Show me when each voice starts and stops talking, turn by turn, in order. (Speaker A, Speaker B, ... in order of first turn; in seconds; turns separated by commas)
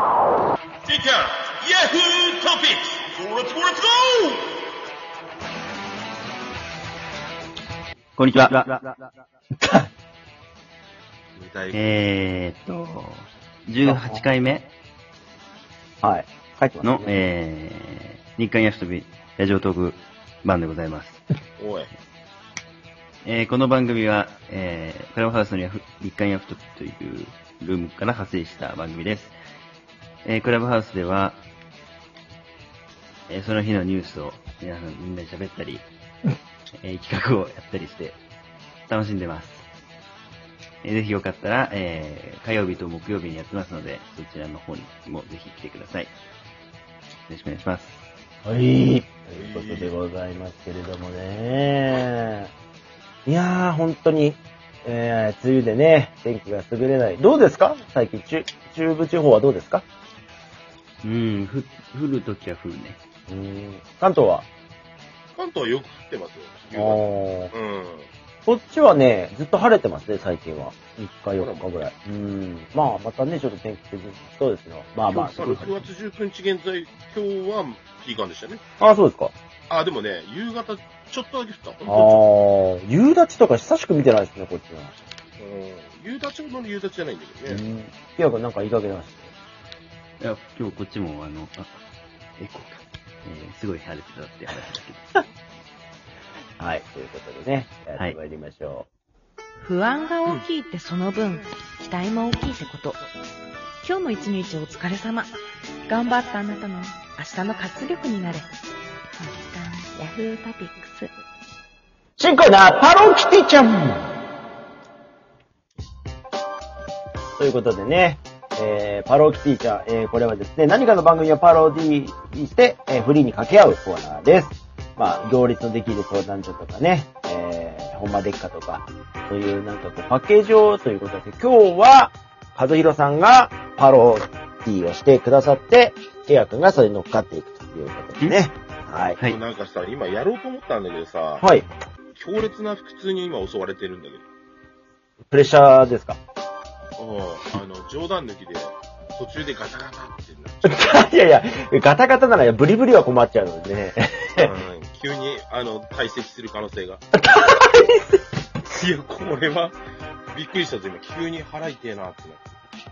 Speaker A: 0.9-4.4, Speaker B: 8.2-8.8, Speaker C: 8.4-8.7, Speaker A: 11.3-11.9, Speaker B: 11.7-14.7, Speaker C: 13.8-14.2, Speaker C: 16.0-17.2, Speaker B: 16.8-21.2, Speaker A: 21.6-21.9, Speaker B: 23.2-29.4, Speaker B: 30.2-31.4, Speaker B: 33.3-35.9, Speaker B: 36.8-38.2, Speaker B: 38.9-39.7, Speaker B: 40.8-46.1, Speaker B: 47.3-48.1, Speaker C: 48.5-52.5, Speaker A: 49.4-50.0, Speaker C: 53.3-59.8, Speaker B: 61.0-63.0, Speaker C: 63.3-64.5, Speaker A: 65.3-68.1, Speaker C: 66.7-67.5, Speaker C: 68.5-75.8, Speaker A: 71.4-71.7, Speaker A: 75.1-78.6, Speaker C: 78.8-79.3, Speaker A: 79.7-82.2, Speaker C: 81.9-85.0, Speaker A: 85.4-87.6, Speaker C: 87.5-89.3, Speaker B: 90.2-91.8, Speaker B: 92.4-95.1, Speaker C: 96.6-98.9, Speaker D: 99.6-103.0, Speaker D: 103.8-105.3, Speaker D: 105.9-108.5, Speaker D: 109.2-111.1, Speaker C: 112.2-114.1, Speaker C: 117.4-139.2, Speaker A: 139.2-141.4, Speaker C: 141.4-141.7, Speaker A: 142.2-144.2, Speaker C: 145.3-146.2, Speaker A: 147.0-150.9, Speaker C: 150.7-154.5, Speaker A: 154.4-157.0, Speaker C: 157.1-158.2, Speaker A: 158.7-159.8, Speaker A: 160.3-162.5